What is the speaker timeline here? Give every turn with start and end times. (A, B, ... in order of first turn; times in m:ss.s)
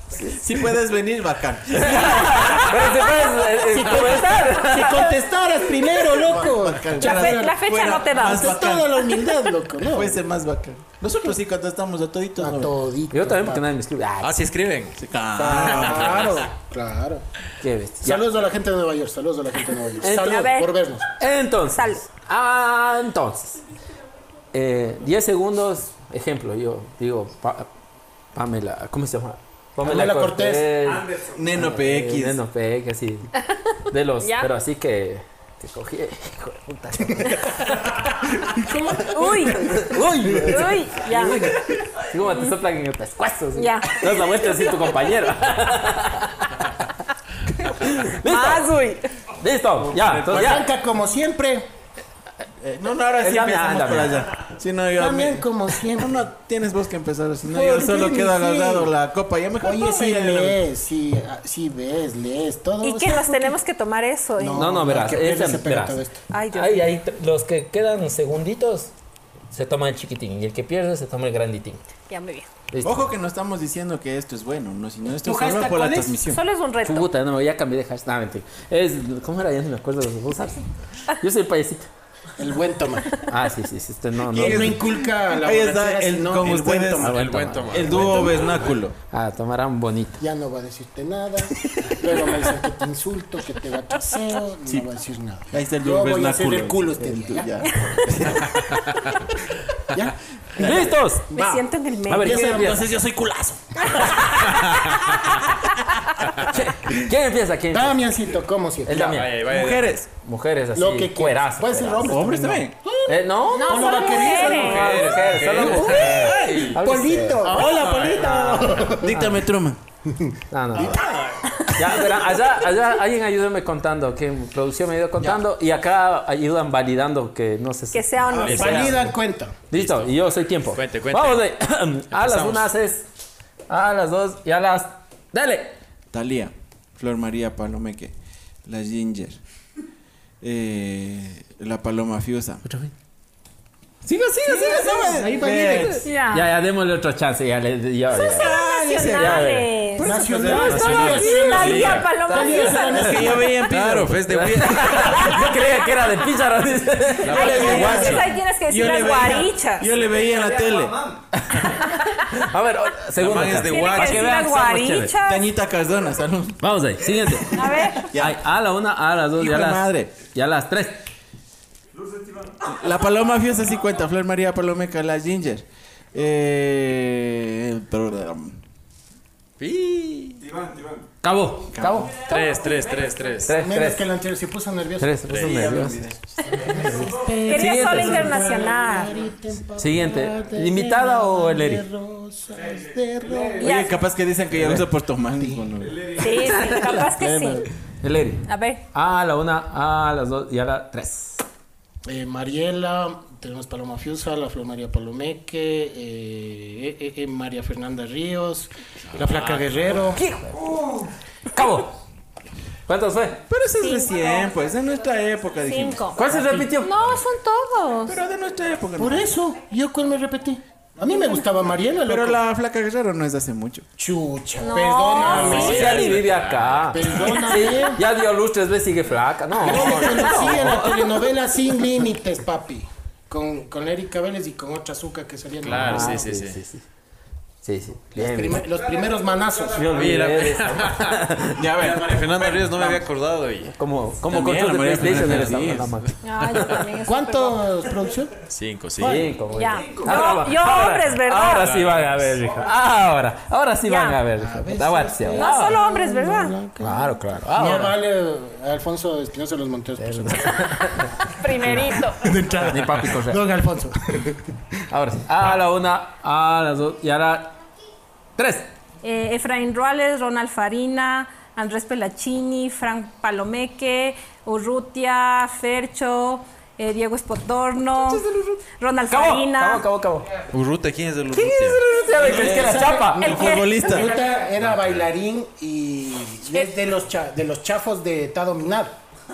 0:00.2-0:02.7 A
0:01.8-0:05.2 B
0:03.5-0:10.2 C
0:06.2-0:09.2 A
0:07.0-0:08.8 D
0:09.8-0:12.7 A
0:12.4-0:13.7 C
0:13.1-0:14.4 B
0:14.2-0:15.0 E
0:15.0-0:16.4 A
0:15.4-0:17.2 C
0:15.4-0:15.7 B
0:15.6-0:16.5 E
0:17.6-0:18.2 B
0:18.0-0:21.1 C
0:20.0-0:20.4 B
0:20.0-0:20.7 D
0:21.2-0:23.6 B
0:21.8-0:22.1 D
0:24.5-0:27.7 B
0:28.3-0:33.3 B
0:29.8-0:30.8 C
0:30.8-0:31.6 F
0:31.3-0:32.4 A
0:33.9-0:37.9 B
0:34.2-0:34.5 D
0:38.4-0:40.4 C
0:39.0-0:41.6 D
0:39.5-0:46.7 B
0:43.6-0:45.0 D
0:47.6-0:48.7 B
0:48.2-0:49.0 D
0:49.4-0:50.6 B
0:49.8-0:50.6 A
0:50.3-0:51.7 C
0:52.6-1:00.6 A
0:53.2-0:54.2 B
0:55.0-0:56.2 C
0:57.5-0:58.9 C
0:59.6-1:03.6 C
1:02.8-1:04.8 D
1:04.4-1:06.2 C
1:04.6-1:06.0 B
1:06.3-1:06.9 D
1:06.5-1:08.9 B
1:09.5-1:11.8 B
1:12.1-1:12.5 D
1:12.7-1:13.1 B
1:12.8-1:16.4 A
1:15.2-1:16.3 C
1:16.3-1:17.1 D
1:16.8-1:20.7 B
1:21.2-1:21.9 B
1:22.4-1:23.2 C
1:23.2-1:24.8 B
1:24.2-1:29.0 A
1:24.3-1:27.4 C
1:27.0-1:28.4 E
1:27.1-1:28.3 B
1:29.1-1:30.2 B
1:30.2-1:37.7 C
1:31.7-1:31.9 B
1:35.5-1:38.8 A
1:37.7-1:38.0 D
1:39.8-1:43.4 C
1:40.6-1:42.9 B
1:41.3-1:42.8 D
1:42.5-1:43.6 A
1:43.9-1:44.3 C
1:43.9-1:44.7 D
1:44.5-1:45.2 E
1:46.4-1:48.0 B
1:47.7-1:49.3 C
1:48.9-1:49.4 B
1:49.0-1:50.0 E
1:49.4-1:50.1 A
1:50.1-1:52.3 B
1:50.7-1:59.3 C
1:52.1-1:52.8 A
1:53.1-1:59.3 B
1:53.5-1:55.1 D
1:54.6-1:56.8 E
1:55.8-1:56.7 A
1:57.6-1:58.7 E
1:59.0-1:59.8 A
2:00.1-2:01.0 C
2:00.5-2:01.0 B
2:00.9-2:01.4 E
2:01.7-2:09.0 B
2:07.9-2:09.0 D
2:08.4-2:08.9 E
2:08.5-2:09.6 C
2:09.7-2:13.1 B
2:09.7-2:10.2 E
2:10.7-2:11.4 E
2:12.1-2:12.7 E
2:13.7-2:15.8 B
2:16.1-2:18.1 A
2:18.6-2:19.4 A
2:20.4-2:22.6 A
2:22.6-2:22.9 B
2:24.1-2:25.1 B
2:24.4-2:26.0 A
2:24.5-2:26.1 C
2:26.0-2:26.5 D
2:26.3-2:28.6 B
2:28.1-2:33.4 D
2:28.2-2:31.3 A
2:29.1-2:29.8 B
2:30.0-2:33.6 C
2:30.6-2:32.1 E
2:32.3-2:33.0 B
2:32.4-2:34.5 A
2:33.7-2:35.6 E
2:34.3-2:38.3 B
2:37.2-2:38.3 E
2:37.3-2:39.9 D
2:37.3-2:41.0 A
2:39.9-2:41.2 F
2:41.4-2:45.2 B
2:41.8-2:42.3 D
2:43.2-2:44.4 E
2:43.6-2:45.5 D
2:45.2-2:46.6 A
2:46.6-2:51.0 B
2:47.3-2:48.4 A
2:47.5-2:48.1 D
2:49.4-2:50.2 A
2:51.9-2:52.6 F
2:52.6-2:58.6 A
2:59.6-3:00.4 E
3:00.4-3:01.1 F
3:01.2-3:02.6 B
3:01.7-3:02.2 A
3:02.2-3:03.6 E
3:02.3-3:03.5 F
3:03.4-3:04.1 B
3:03.5-3:13.8 C
3:05.0-3:06.0 B
3:05.3-3:05.8 E
3:05.4-3:06.2 A
3:06.6-3:07.4 F
3:06.8-3:08.4 B
3:07.4-3:09.1 D
3:09.7-3:11.8 B
3:12.6-3:13.8 F
3:13.6-3:14.0 D
3:13.6-3:16.2 A
3:15.4-3:15.7 C
3:15.8-3:16.7 F
3:16.2-3:17.7 D
3:16.4-3:21.4 B
3:18.4-3:18.8 D
3:22.0-3:30.2 C
3:29.1-3:30.2 E
3:30.1-3:30.7 B
3:30.6-3:31.1 F
3:31.5-3:32.0 B
3:32.9-3:33.4 B
3:33.5-3:36.7 A
3:33.8-3:34.6 D
3:35.6-3:38.2 D
3:36.2-3:36.9 B
3:38.1-3:39.3 A
3:39.0-3:42.4 C
3:42.0-3:43.9 A
3:44.0-3:46.0 C
3:44.6-3:46.2 D
3:45.3-3:47.2 E
3:45.3-3:51.3 B
3:46.9-3:48.0 C
3:49.5-3:56.2 C
3:55.6-3:56.6 E
3:55.7-3:56.8 B
3:57.6-3:58.7 B
3:58.1-4:00.0 C
3:58.7-4:00.2 F
3:59.8-4:01.6 B
3:59.9-4:03.8 E
4:01.6-4:03.0 A
4:03.7-4:06.7 B
4:04.3-4:06.1 A
4:05.0-4:05.4 E
4:06.2-4:07.7 D
4:07.0-4:08.4 C
4:08.5-4:09.3 E
4:09.0-4:15.8 B
4:09.5-4:11.8 D
4:09.7-4:10.1 F
4:11.4-4:12.5 E
4:13.9-4:14.2 D
4:14.3-4:21.0 C
4:15.3-4:16.6 D
4:16.8-4:18.0 B
4:20.0-4:21.9 B
4:21.2-4:22.2 D
4:22.2-4:24.4 C
4:22.6-4:23.4 B
4:24.9-4:27.6 B
4:28.4-4:28.7 B
4:29.0-4:38.3 D
4:37.9-4:40.4 B
4:38.8-4:39.9 D
4:40.5-4:41.8 E
4:41.3-4:43.4 B
4:42.1-4:49.0 C
4:42.2-4:44.1 A
4:43.1-4:44.0 D
4:44.0-4:44.4 F
4:44.5-4:45.1 E